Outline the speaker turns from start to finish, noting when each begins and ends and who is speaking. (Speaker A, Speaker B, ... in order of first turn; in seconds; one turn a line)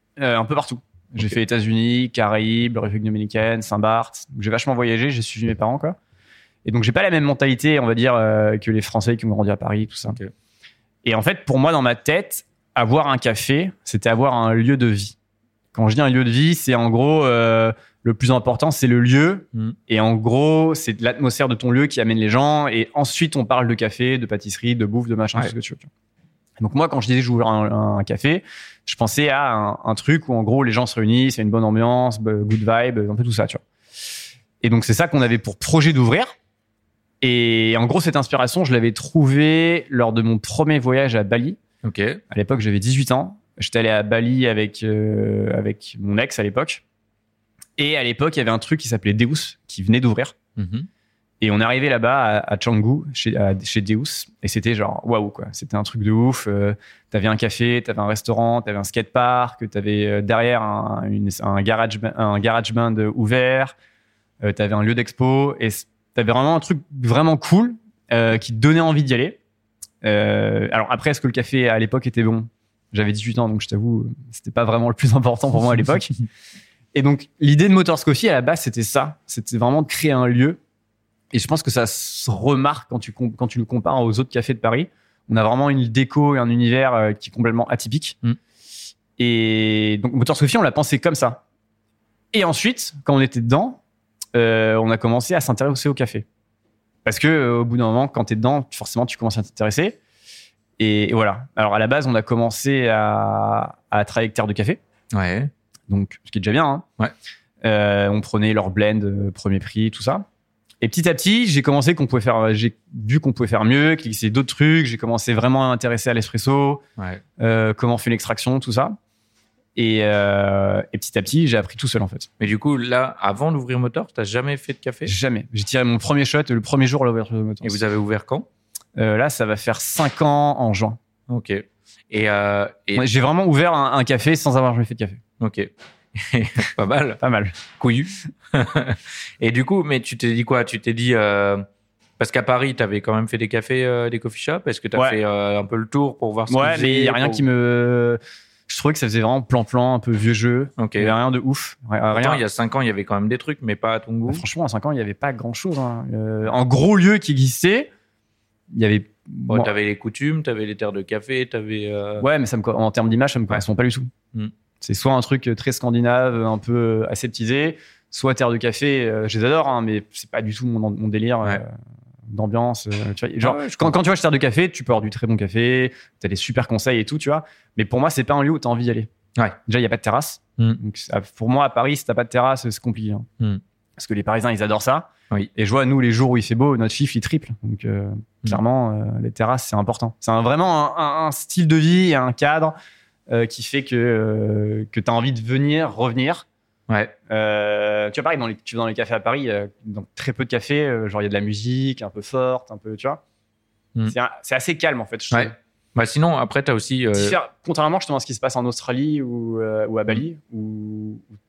Speaker A: 0.2-6.0
Speaker A: 6.6-10.2
Speaker A: 11.0-15.2
Speaker A: 15.7-25.9
Speaker A: 26.6-33.6
Speaker A: 34.6-36.3
Speaker A: 37.2-41.6
Speaker B: 41.8-42.2
Speaker A: 42.3-46.8
Speaker A: 47.8-50.4
Speaker B: 50.5-50.9
Speaker A: 51.4-63.7
Speaker A: 64.4-69.4
Speaker A: 70.0-76.2
Speaker A: 76.9-80.6
Speaker A: 81.3-88.2
Speaker A: 89.2-91.4
Speaker A: 92.3-93.8
Speaker A: 94.3-96.2
Speaker A: 97.0-100.0
Speaker A: 100.8-104.8
Speaker B: 105.1-105.5
Speaker A: 105.9-106.8
Speaker A: 107.6-110.2
Speaker A: 110.8-116.8
Speaker A: 117.4-119.0
Speaker A: 119.8-122.3
Speaker B: 122.4-125.1
Speaker A: 125.0-127.8
Speaker B: 127.6-128.5
Speaker A: 128.9-131.0
Speaker B: 131.3-133.1
Speaker A: 133.0-135.2
Speaker B: 135.4-137.2
Speaker A: 137.2-137.6
Speaker B: 137.8-141.6
Speaker B: 142.2-147.4
Speaker A: 146.5-152.4
Speaker B: 150.8-151.1
Speaker B: 152.1-154.4
Speaker A: 154.3-157.9
Speaker A: 158.7-159.7
Speaker B: 159.5-162.2
Speaker A: 162.2-164.1
Speaker A: 164.8-171.7
Speaker A: 172.3-179.1
Speaker B: 173.4-173.9
Speaker A: 179.7-183.3
Speaker A: 184.0-192.7
Speaker A: 193.3-196.4
Speaker B: 196.9-197.1
Speaker A: 197.3-203.2
Speaker A: 204.1-205.6
Speaker B: 205.3-207.4
Speaker A: 207.1-211.3